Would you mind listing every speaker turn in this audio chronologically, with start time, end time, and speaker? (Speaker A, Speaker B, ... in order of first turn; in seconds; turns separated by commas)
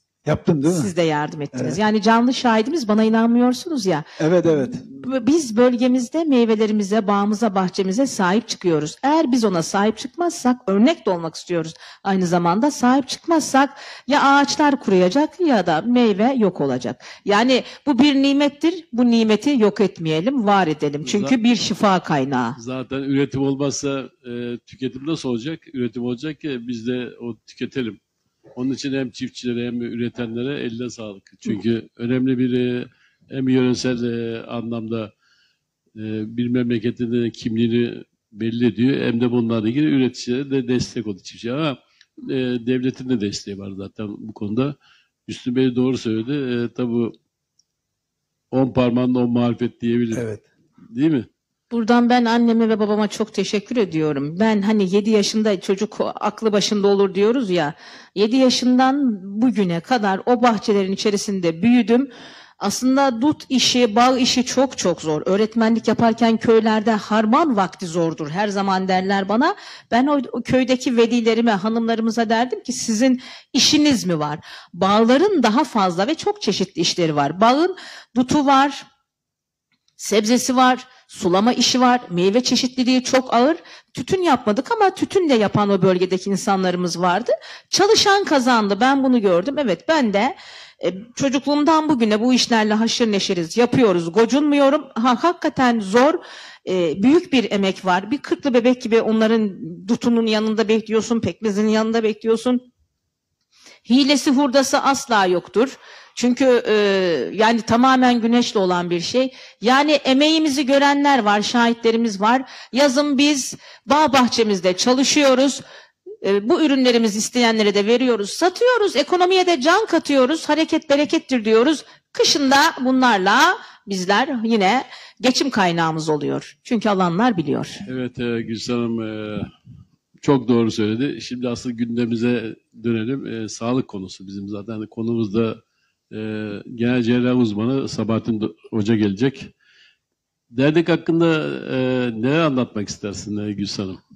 Speaker A: 0.2-0.9, Speaker B: 0.7-4.1, Speaker A: 1.5-1.8, Speaker A: 4.2-4.9, Speaker B: 4.9-22.6, Speaker C: 21.1-21.4, Speaker C: 22.6-28.0, Speaker C: 28.6-35.1, Speaker C: 36.0-44.8, Speaker C: 45.3-47.1, Speaker C: 48.5-50.3, Speaker A: 50.1-50.5, Speaker C: 50.9-51.3, Speaker B: 51.7-78.9, Speaker B: 80.0-102.7, Speaker B: 103.9-115.6, Speaker B: 116.2-127.8, Speaker C: 127.9-129.5, Speaker C: 130.2-139.5, Speaker C: 140.5-144.0